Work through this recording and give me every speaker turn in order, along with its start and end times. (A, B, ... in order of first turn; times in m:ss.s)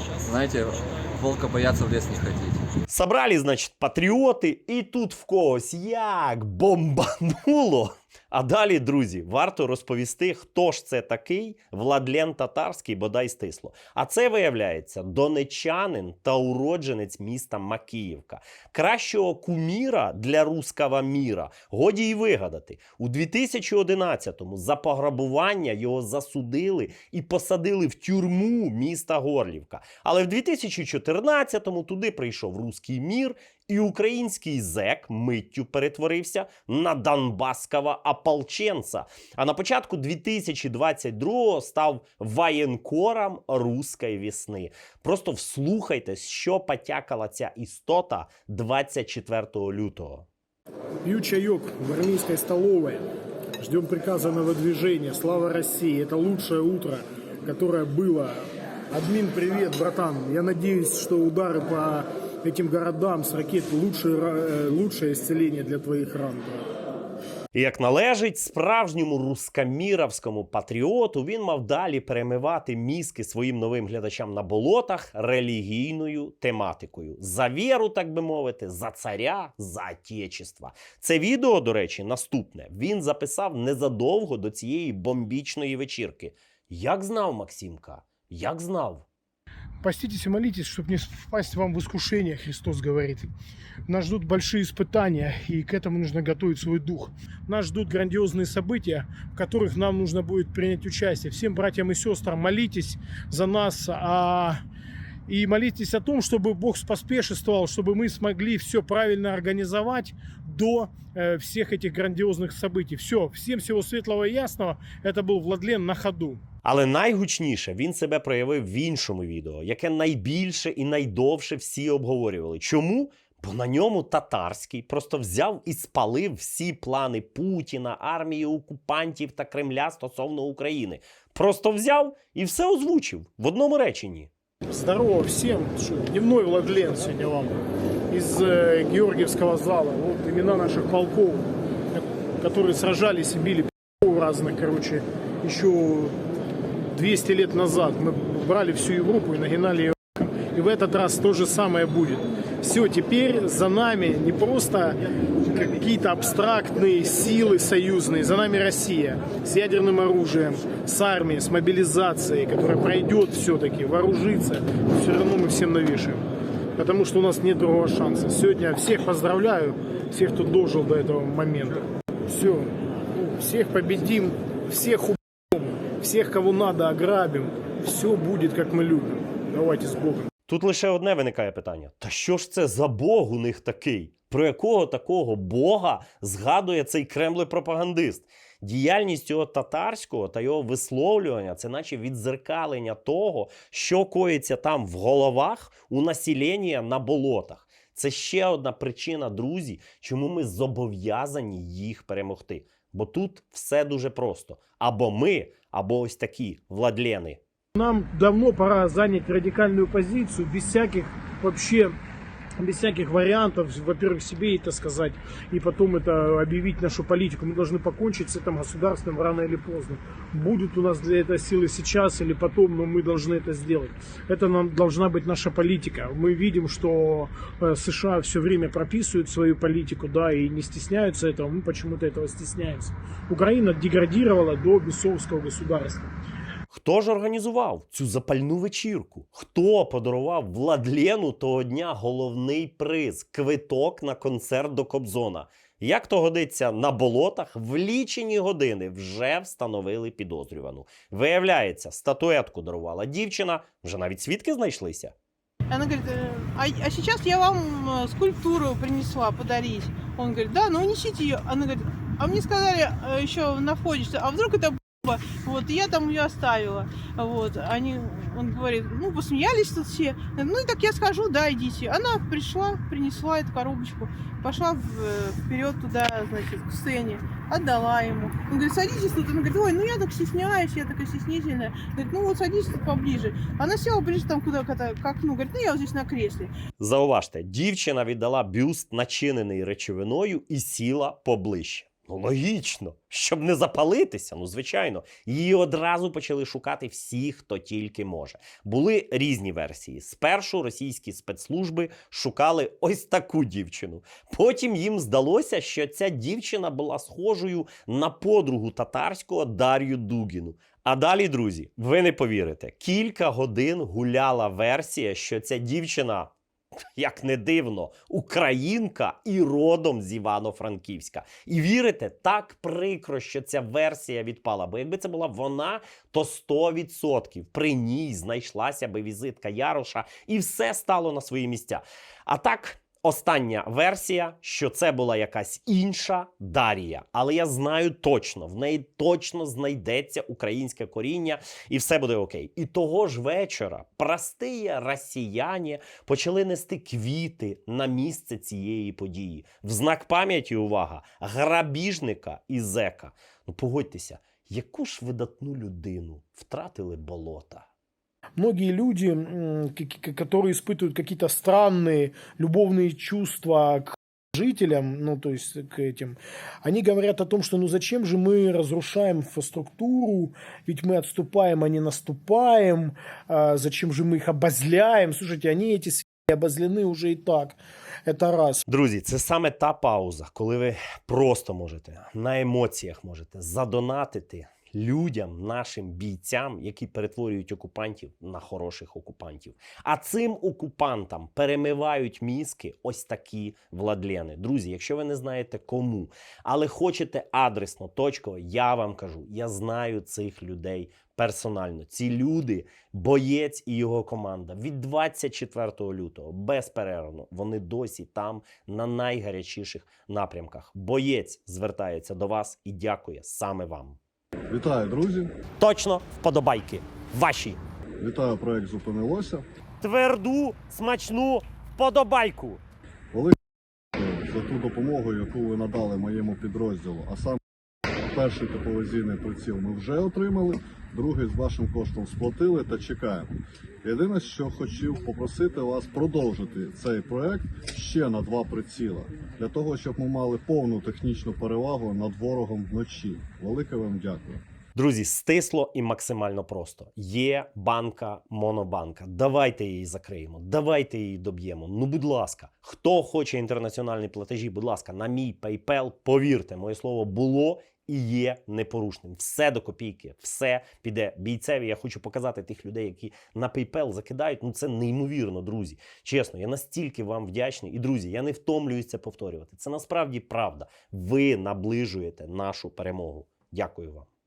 0:00.2-0:02.6 A
0:02.9-0:50.3 B
0:51.0-0:53.0 C
0:53.6-1:06.6 C
1:07.5-1:29.0 B
1:29.8-1:33.3 C
1:33.9-1:44.6 C
1:45.3-1:56.4 C
1:56.6-2:14.3 B
2:14.7-2:26.2 C
2:26.9-2:46.2 C
2:46.8-3:00.3 C
3:00.5-3:27.4 B
3:27.7-3:31.9 C
3:32.6-3:56.1 C
3:56.7-4:15.1 B
4:15.7-4:46.5 D
4:46.8-5:16.3 B
5:17.0-5:57.7 B
5:58.4-6:18.6 C
6:18.7-6:54.0 B
6:54.5-6:55.3 E
6:55.6-6:57.6 B
6:58.0-6:59.4 E
6:59.8-7:02.6 B
7:03.1-7:03.4 E
7:03.9-7:07.4 E
7:08.1-7:24.4 E
7:24.7-7:54.1 B